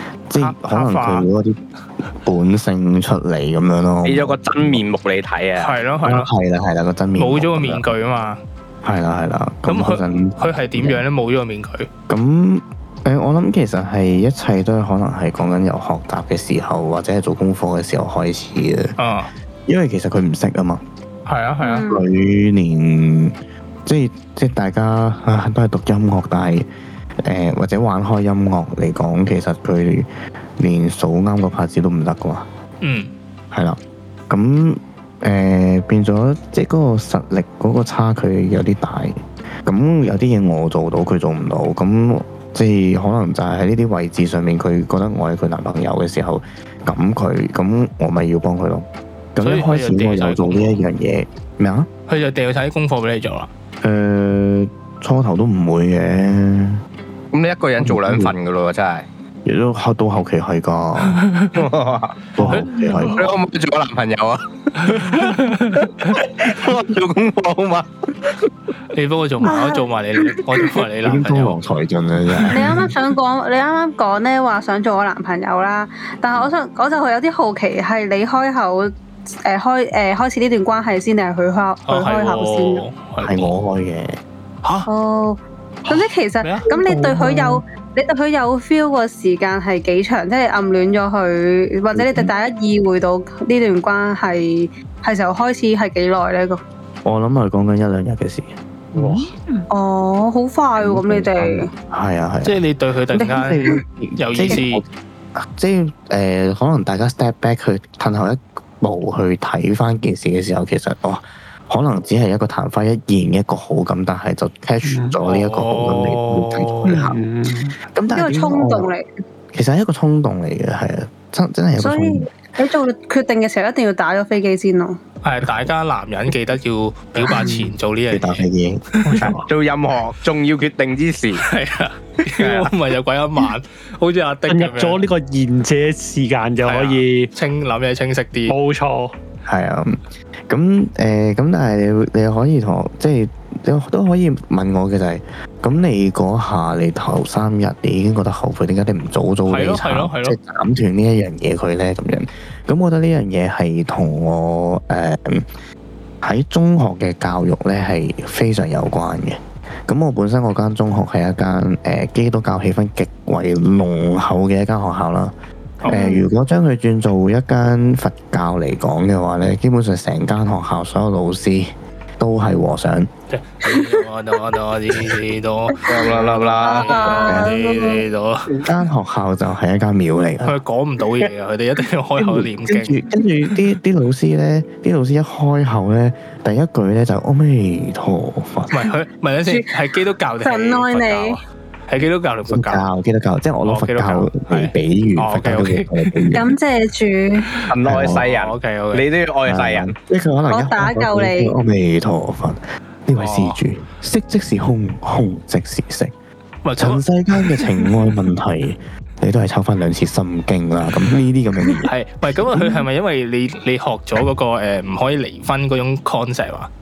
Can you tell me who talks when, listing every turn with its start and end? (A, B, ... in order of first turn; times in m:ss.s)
0:00.3-0:04.8 A
0:00.4-0:01.3 B
0:04.0-0:05.7 C
0:05.6-0:06.3 B
0:06.0-0:07.9 A
0:07.2-0:08.4 B
0:08.8-0:11.0 A
0:09.7-0:11.9 B
0:12.1-0:19.0 A
0:19.0-0:19.3 B
0:19.7-0:20.8 A
0:21.2-0:21.8 B
0:21.6-0:22.0 D
0:21.8-0:26.6 A
0:27.2-0:32.5 A
0:32.8-0:33.1 B
0:33.5-0:33.8 A
0:34.3-0:51.9 A
0:49.4-0:50.8 B
0:52.1-0:53.5 B
0:53.8-0:56.8 A
0:57.3-0:59.0 C
0:57.8-0:58.3 A
0:59.4-1:01.2 A
1:01.2-1:01.5 B
1:01.5-1:02.2 C
1:02.4-1:03.4 A
1:02.4-1:03.3 B
1:03.0-1:08.3 C
1:04.9-1:05.8 B
1:08.9-1:11.6 B
1:09.4-1:09.8 D
1:11.0-1:12.9 A
1:12.5-1:22.8 D
1:21.9-1:23.5 B
1:23.2-1:24.2 A
1:24.8-1:36.6 D
1:25.9-1:26.7 B
1:27.0-1:27.5 A
1:31.9-1:32.3 A
1:37.0-1:38.5 A
1:38.9-1:39.6 E
1:39.7-1:41.7 D
1:40.8-1:42.6 A
1:42.4-1:44.8 B
1:43.1-1:57.2 A
1:43.1-1:43.8 D
1:54.8-1:55.2 E
1:55.2-1:57.1 B
1:56.8-1:57.8 E
1:57.9-1:58.9 A
1:58.1-1:59.1 D
1:59.5-2:02.3 A
2:01.8-2:05.0 D
2:05.2-2:08.4 B
2:07.3-2:07.7 E
2:08.1-2:09.3 A
2:08.9-2:09.2 B
2:09.0-2:09.4 E
2:09.2-2:11.4 C
2:11.4-2:15.0 B
2:12.4-2:12.7 C
2:14.5-2:17.3 E
2:16.6-2:18.5 B
2:18.5-2:19.1 E
2:19.4-2:35.5 A
2:29.4-2:30.4 B
2:36.2-2:45.3 A
2:45.8-2:53.1 A
2:45.9-2:46.3 D
2:53.3-2:58.6 B
2:55.8-2:57.2 C
2:56.6-2:58.0 D
2:57.3-2:57.6 A
2:58.6-3:00.6 A
3:00.4-3:03.0 B
3:02.2-3:08.9 A
3:08.7-3:12.8 B
3:09.4-3:09.7 D
3:10.4-3:11.4 D
3:12.5-3:16.5 A
3:13.6-3:16.3 B
3:16.3-3:17.5 D
3:17.6-3:19.1 B
3:17.7-3:19.9 C
3:17.8-3:18.2 A
3:19.4-3:26.1 A
3:20.5-3:21.5 D
3:23.2-3:23.6 B
3:26.6-3:27.9 B
3:26.8-3:31.9 A
3:31.8-3:36.7 B
3:32.5-3:32.8 A